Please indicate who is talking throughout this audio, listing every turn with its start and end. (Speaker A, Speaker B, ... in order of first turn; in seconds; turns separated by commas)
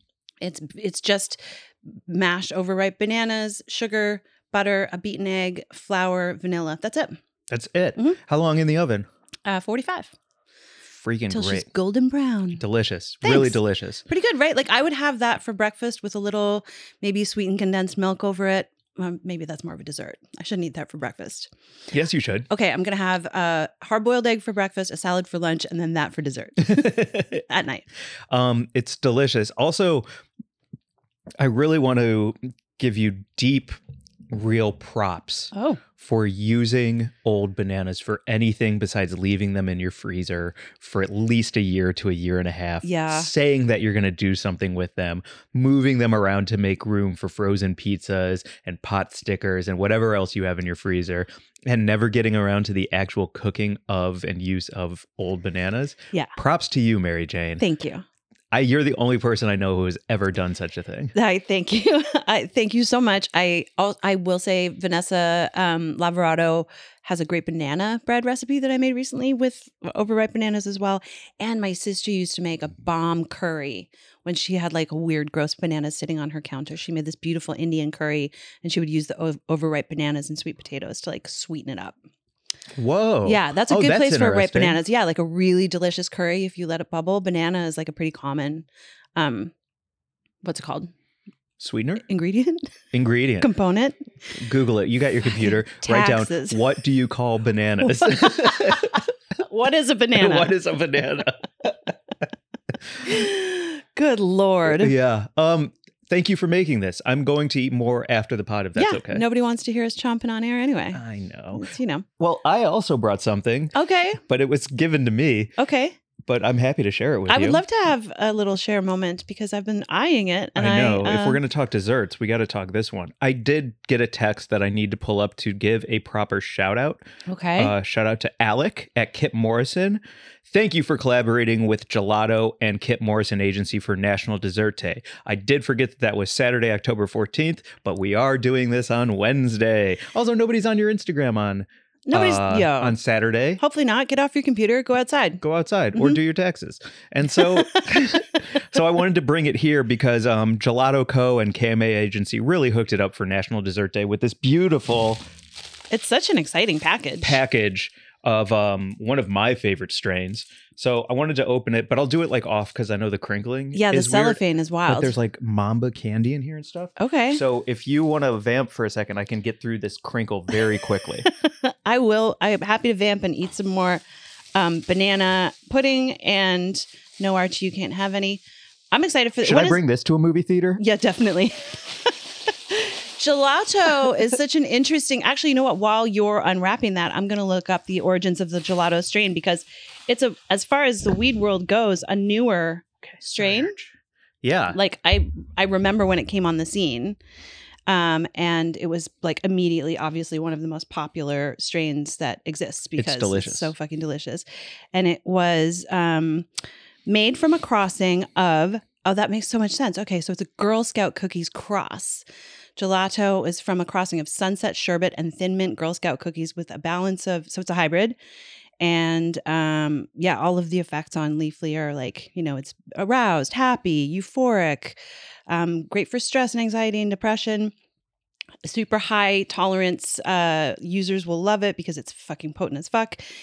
Speaker A: 0.4-7.2, Speaker B: 7.5-9.1, Speaker A: 9.4-10.1, Speaker B: 10.9-11.7, Speaker A: 11.3-12.6, Speaker B: 12.6-14.0, Speaker A: 13.2-21.5, Speaker B: 21.9-22.5, Speaker A: 22.5-27.8, Speaker B: 26.6-27.4, Speaker B: 28.3-30.1, Speaker B: 31.4-33.8, Speaker B: 34.3-57.6, Speaker A: 35.5-35.8, Speaker A: 42.8-43.3, Speaker A: 57.6-58.0, Speaker B: 58.5-61.1, Speaker A: 61.1-82.0, Speaker B: 82.8-84.8, Speaker A: 83.2-89.5, Speaker A: 90.4-90.9, Speaker B: 91.6-92.0, Speaker A: 92.0-92.7, Speaker B: 92.9-93.5, Speaker A: 93.4-94.0, Speaker B: 94.3-99.0, Speaker A: 95.3-96.6, Speaker A: 97.9-100.5, Speaker B: 100.2-101.9, Speaker A: 103.0-104.9, Speaker B: 104.7-109.2, Speaker A: 108.8-111.0, Speaker B: 110.9-115.5, Speaker A: 111.5-112.0, Speaker A: 113.7-114.2, Speaker A: 115.6-116.0, Speaker B: 116.2-117.6, Speaker A: 117.3-121.4, Speaker B: 120.5-127.0, Speaker A: 127.2-127.7, Speaker B: 127.6-143.6, Speaker A: 142.1-143.0, Speaker A: 143.6-145.4, Speaker B: 145.4-155.2, Speaker A: 147.4-148.0, Speaker A: 155.9-157.4, Speaker B: 157.2-171.3, Speaker A: 163.7-165.1, Speaker A: 167.0-167.4, Speaker A: 171.4-174.0, Speaker A: 174.5-179.8, Speaker B: 179.4-180.8, Speaker A: 180.8-181.8, Speaker A: 182.7-193.7, Speaker B: 193.0-194.8, Speaker A: 194.7-197.2, Speaker A: 197.9-206.5, Speaker B: 203.0-203.7, Speaker A: 207.1-212.2, Speaker A: 212.8-218.2, Speaker A: 218.8-227.7, Speaker A: 228.6-233.2